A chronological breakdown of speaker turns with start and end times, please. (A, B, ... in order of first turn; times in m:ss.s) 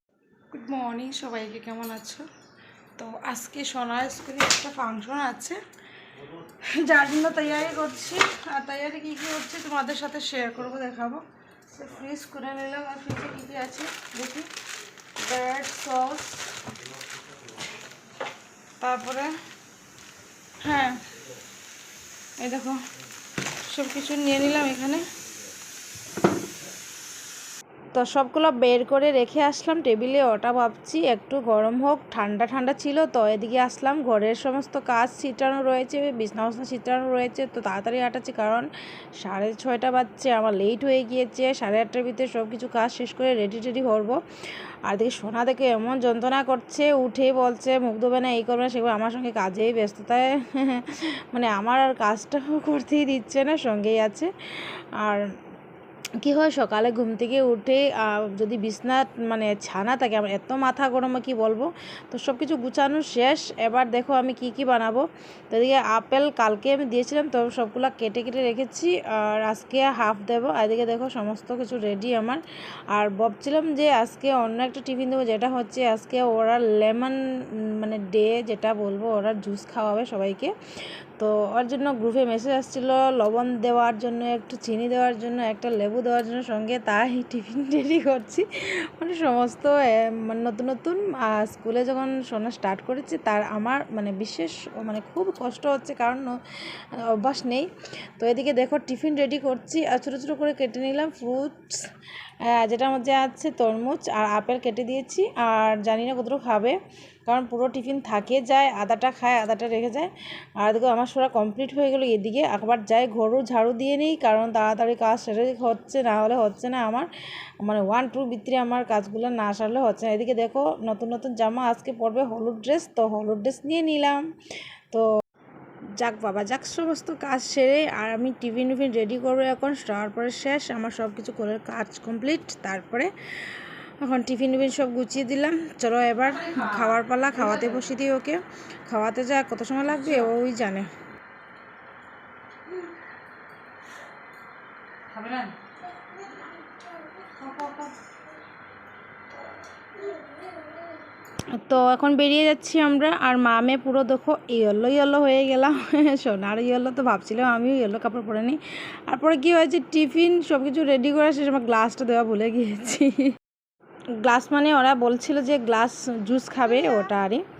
0:00.5-0:02.2 A
0:03.0-0:05.6 A
0:06.5-0:14.5 A
0:15.2-0:16.5 A
0:18.8-0:19.3 A
0:20.6-0:21.0 A
0:22.4-0:22.8 A
0:23.7-0:25.0 A
0:27.9-0:38.7 A
0:39.2-0:44.2 A
0:44.8-0:54.3 A
0:56.2-1:12.4 A
1:12.9-1:17.2 A
1:17.8-1:20.5 A
1:21.2-1:41.9 A
1:42.4-1:57.1 A
1:57.6-2:04.2 A
2:06.0-2:20.9 A
2:25.1-2:25.5 A
2:27.4-2:27.9 A
2:31.6-2:43.3 A
2:44.2-2:47.4 A